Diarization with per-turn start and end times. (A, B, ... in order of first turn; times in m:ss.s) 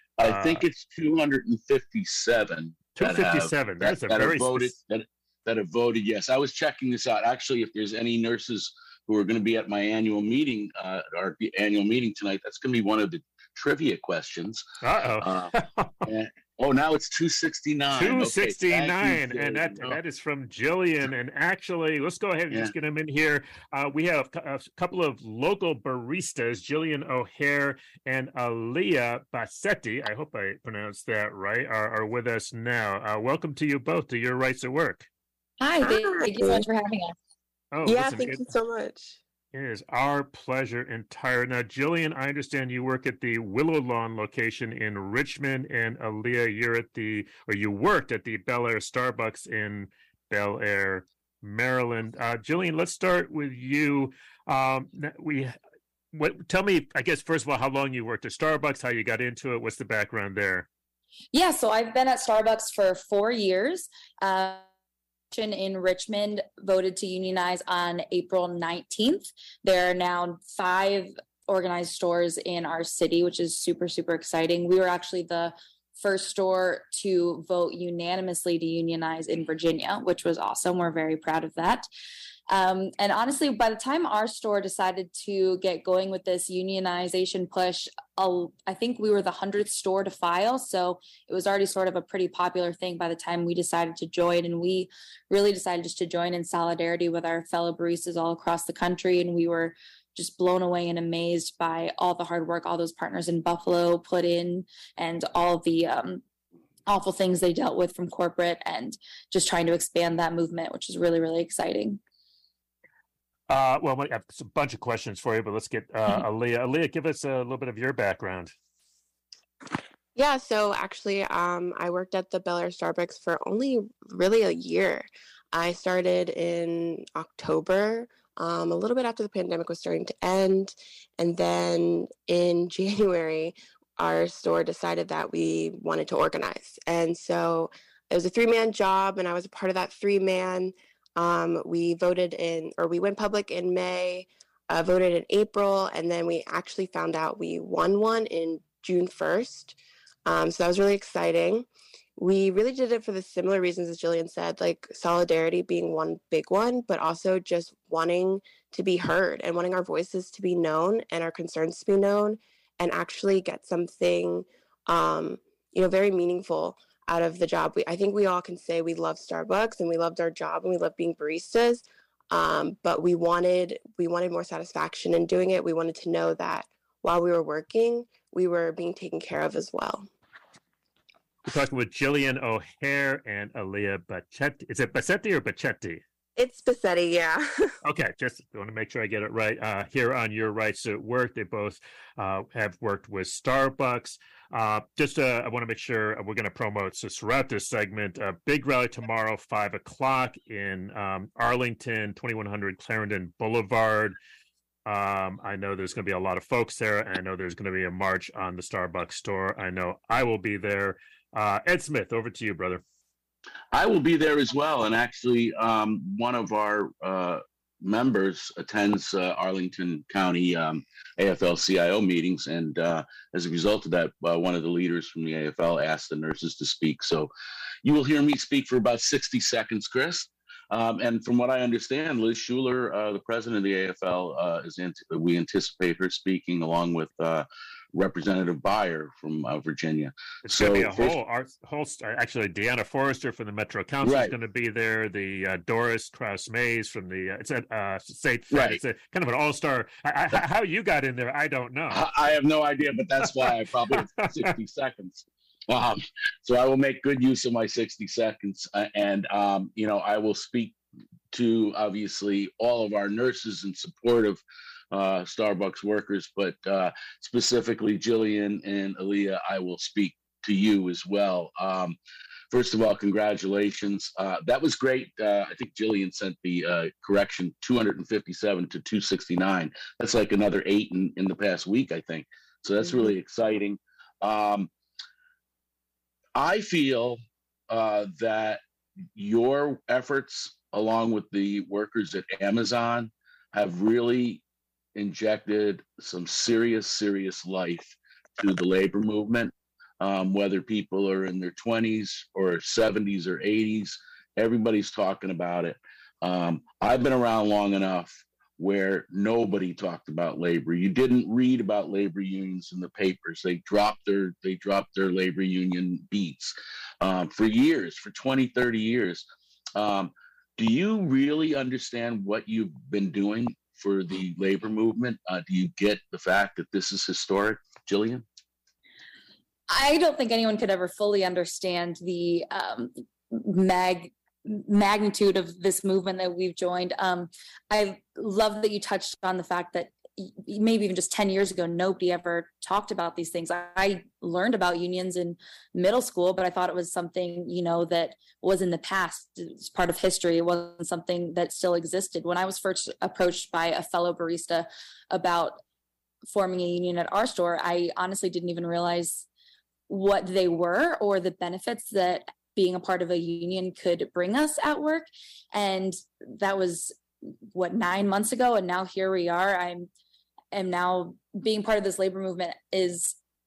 0:00.2-0:14.6 A
0:00.2-0:00.6 B
0:03.0-0:04.7 B
0:14.8-0:16.0 B
0:15.2-0:15.5 A
0:16.0-0:20.0 A
0:17.9-0:35.1 B
0:35.6-0:37.1 C
0:35.8-0:36.6 D
0:37.7-0:38.4 B
0:37.8-0:39.2 D
0:39.5-0:55.5 B
0:56.1-1:00.7 B
1:01.3-1:04.6 C
1:05.3-1:21.8 C
1:22.5-1:46.2 C
1:46.9-1:52.0 C
1:53.5-1:58.5 B
2:00.1-3:00.1 D
3:01.4-3:06.0 B
3:06.4-3:07.8 D
3:07.8-3:24.2 B
3:24.8-3:32.8 B
3:33.7-3:47.3 A
3:47.8-4:01.1 A
4:00.4-4:12.1 B
4:04.0-4:04.3 A
4:08.5-4:08.8 A
4:11.9-4:20.8 A
4:14.0-4:14.5 B
4:21.3-4:32.0 A
4:32.5-4:44.7 A
4:46.3-4:47.2 A
4:47.7-4:48.6 A
4:49.1-4:54.4 A
4:54.9-5:19.2 A
5:19.8-5:28.2 A
5:29.7-5:55.6 C
5:56.3-5:59.2 C
5:59.9-6:07.0 C
6:07.5-6:09.9 C
6:10.5-6:13.2 C